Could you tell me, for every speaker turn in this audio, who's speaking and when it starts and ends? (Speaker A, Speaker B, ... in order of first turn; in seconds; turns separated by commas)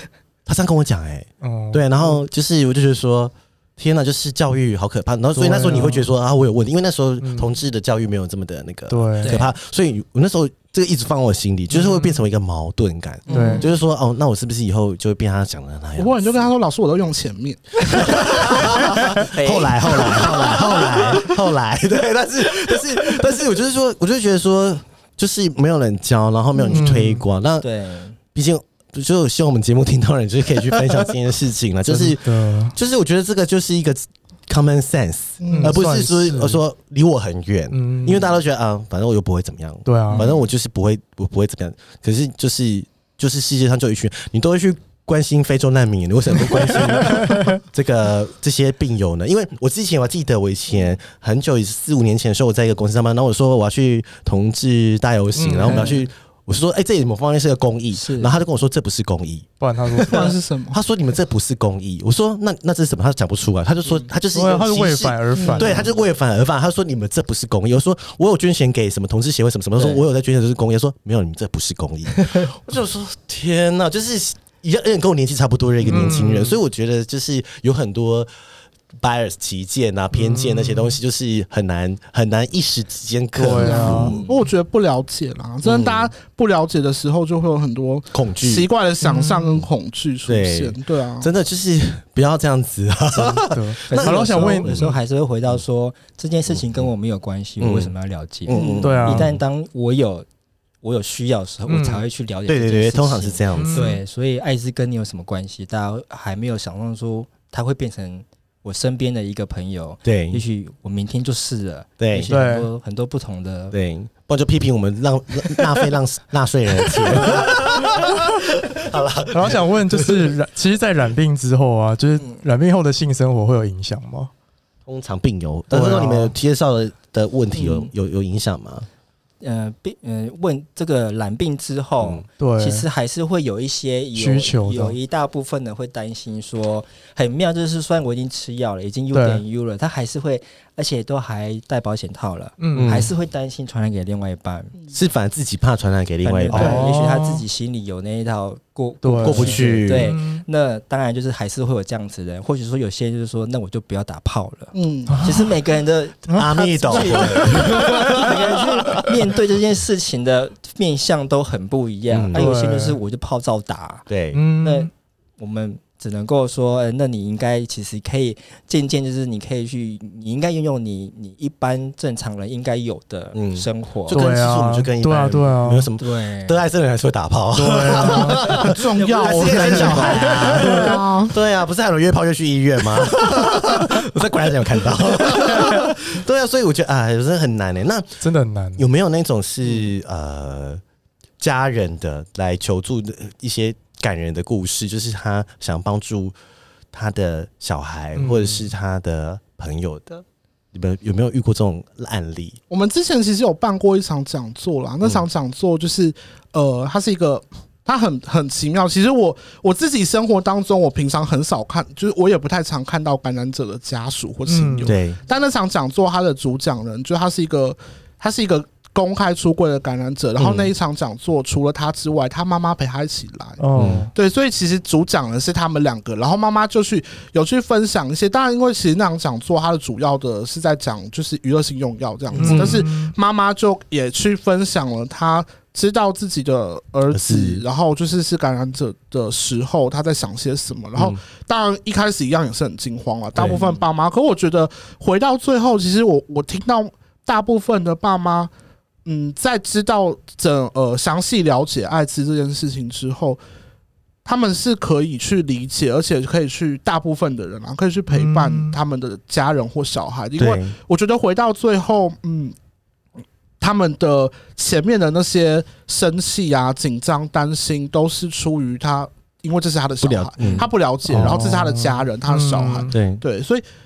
Speaker A: 0.5-16.5, Speaker B: 1.4-2.1, Speaker B: 5.3-6.1, Speaker B: 7.2-7.5, Speaker B: 8.9-9.4, Speaker C: 9.2-9.5, Speaker B: 11.7-12.2, Speaker D: 13.3-13.7, Speaker B: 13.3-13.7, Speaker D: 16.0-18.6, Speaker A: 17.8-27.7, Speaker C: 19.2-21.0, Speaker D: 20.2-21.2, Speaker D: 26.6-26.9, Speaker B: 26.7-27.2, Speaker C: 27.6-28.2, Speaker A: 28.3-59.5, Speaker B: 31.9-32.7, Speaker D: 35.4-35.8, Speaker B: 35.5-36.6, Speaker B: 37.7-38.3, Speaker B: 39.9-40.3, Speaker C: 40.1-40.4, Speaker B: 46.7-47.5, Speaker B: 55.4-55.9, Speaker C: 55.6-56.0, Speaker C: 57.9-58.3, Speaker B: 59.6-60.3, Speaker D: 60.0-60.8, Speaker A: 60.7-78.3, Speaker B: 64.3-65.9, Speaker D: 65.4-65.8, Speaker C: 72.2-72.5, Speaker B: 75.9-76.6, Speaker A: 79.0-84.2, Speaker B: 80.1-81.0, Speaker B: 83.4-84.2, Speaker D: 83.5-91.3, Speaker C: 83.9-84.4, Speaker A: 85.6-86.1, Speaker A: 88.1-88.7, Speaker B: 89.0-89.6, Speaker A: 90.3-94.9, Speaker B: 93.1-94.9, Speaker C: 93.9-100.3, Speaker A: 96.5-96.9, Speaker A: 97.6-97.9, Speaker A: 98.5-99.4, Speaker D: 98.5-98.9, Speaker B: 98.8-99.3, Speaker C: 100.8-113.7, Speaker B: 101.7-102.0, Speaker A: 102.5-104.0, Speaker B: 103.5-104.0, Speaker A: 110.0-110.4, Speaker A: 112.0-112.3, Speaker B: 112.3-112.7, Speaker A: 113.7-120.4, Speaker B: 119.3-124.3, Speaker A: 124.9-128.9, Speaker B: 125.7-126.3, Speaker C: 129.4-144.7, Speaker B: 132.4-132.9, Speaker B: 134.1-134.9, Speaker B: 139.1-139.4, Speaker B: 142.6-143.0, Speaker A: 142.7-143.1, Speaker A: 144.9-146.8, Speaker C: 146.2-164.1, Speaker B: 146.5-147.4, Speaker B: 149.0-150.4, Speaker A: 149.2-150.1, Speaker D: 154.7-155.2, Speaker B: 155.1-155.5, Speaker B: 156.3-158.2, Speaker A: 156.3-159.1, Speaker A: 162.1-162.5, Speaker B: 162.3-163.0, Speaker A: 164.1-164.4, Speaker B: 164.3-164.9, Speaker C: 164.6-174.2, Speaker A: 173.3-188.2, Speaker B: 174.1-175.9, Speaker C: 176.0-176.6, Speaker B: 177.5-178.6, Speaker D: 178.1-181.4, Speaker C: 178.9-180.9, Speaker B: 188.2-188.8, Speaker A: 188.8-190.8, Speaker A: 191.4-196.3, Speaker A: 196.9-202.6, Speaker B: 198.1-198.7, Speaker D: 202.7-223.6, Speaker B: 214.5-214.9, Speaker A: 214.8-215.2, Speaker A: 220.4-220.7, Speaker B: 223.6-224.1, Speaker A: 223.8-224.1, Speaker D: 224.1-248.5, Speaker B: 232.3-233.1, Speaker A: 232.4-232.8, Speaker A: 237.1-237.6, Speaker A: 240.9-241.2, Speaker A: 243.3-243.6, Speaker D: 249.1-253.4, Speaker D: 254.2-262.6, Speaker B: 258.1-258.8, Speaker A: 260.4-260.7, Speaker D: 263.6-273.6, Speaker A: 270.0-271.4, Speaker B: 271.1-272.9, Speaker A: 272.9-273.2